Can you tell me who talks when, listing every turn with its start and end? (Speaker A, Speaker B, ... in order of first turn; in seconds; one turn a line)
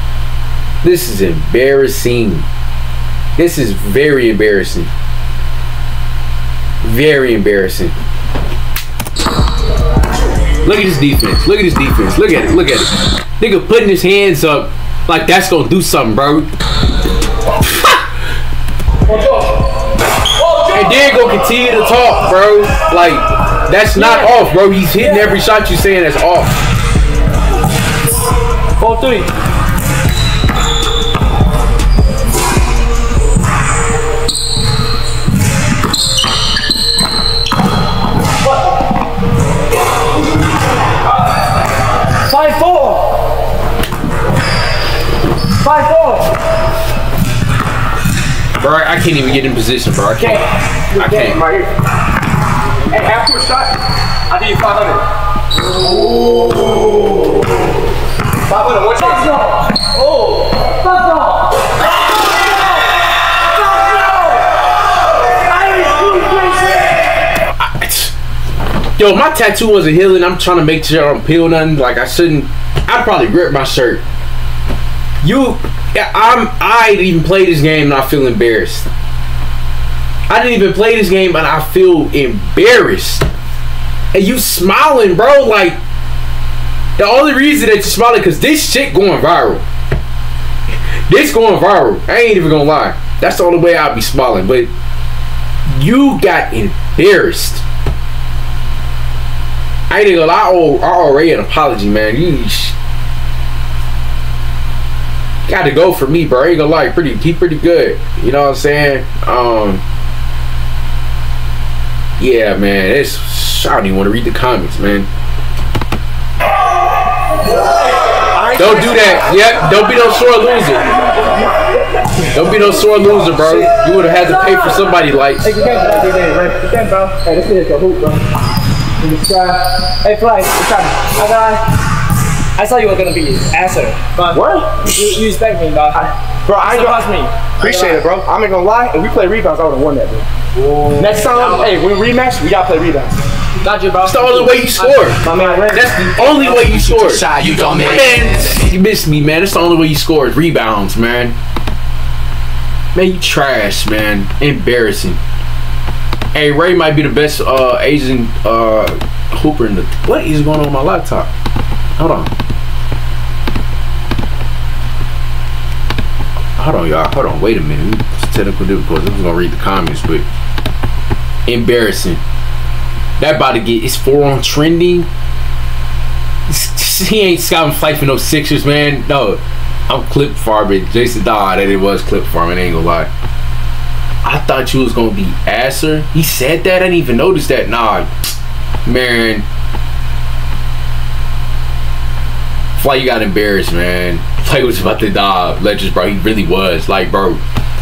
Speaker A: 0.8-2.5
Speaker A: 3.4-4.9
Speaker A: 6.8-7.9
Speaker A: 10.6-16.5
Speaker A: 17.6-18.0
Speaker B: 20.4-20.9
Speaker A: 20.7-26.5
Speaker B: 23.9-24.4
Speaker B: 25.0-25.3
Speaker B: 28.8-29.3
Speaker B: 42.2-43.3
Speaker B: 45.6-46.3
Speaker A: 48.6-51.4
Speaker C: 50.9-51.7
Speaker C: 52.9-53.8
Speaker C: 54.3-55.0
Speaker C: 58.5-59.3
Speaker B: 59.0-61.5
Speaker B: 63.6-64.4
Speaker B: 65.4-66.9
Speaker A: 67.6-68.1
Speaker A: 69.0-74.0
Speaker A: 75.2-78.9
Speaker A: 80.3-83.2
Speaker A: 84.1-85.8
Speaker A: 87.0-89.6
Speaker A: 91.1-94.7
Speaker A: 95.7-97.6
Speaker A: 99.9-102.7
Speaker A: 105.5-109.8
Speaker A: 112.2-115.1
Speaker C: 118.3-119.2
Speaker A: 118.5-120.9
Speaker A: 122.3-125.5
Speaker B: 125.4-128.2
Speaker B: 129.0-131.6
Speaker B: 132.6-136.1
Speaker C: 134.3-134.8
Speaker C: 135.9-137.0
Speaker B: 136.6-138.0
Speaker C: 137.6-140.2
Speaker A: 140.6-141.8
Speaker C: 141.0-143.2
Speaker B: 143.6-146.8
Speaker A: 144.0-151.3
Speaker C: 145.2-145.8
Speaker A: 152.9-155.2
Speaker A: 156.3-161.3
Speaker A: 162.0-162.3
Speaker A: 166.6-170.2
Speaker A: 171.5-172.2
Speaker A: 173.2-175.1
Speaker A: 176.5-183.1
Speaker A: 184.2-188.1
Speaker A: 188.8-189.4
Speaker A: 192.8-197.4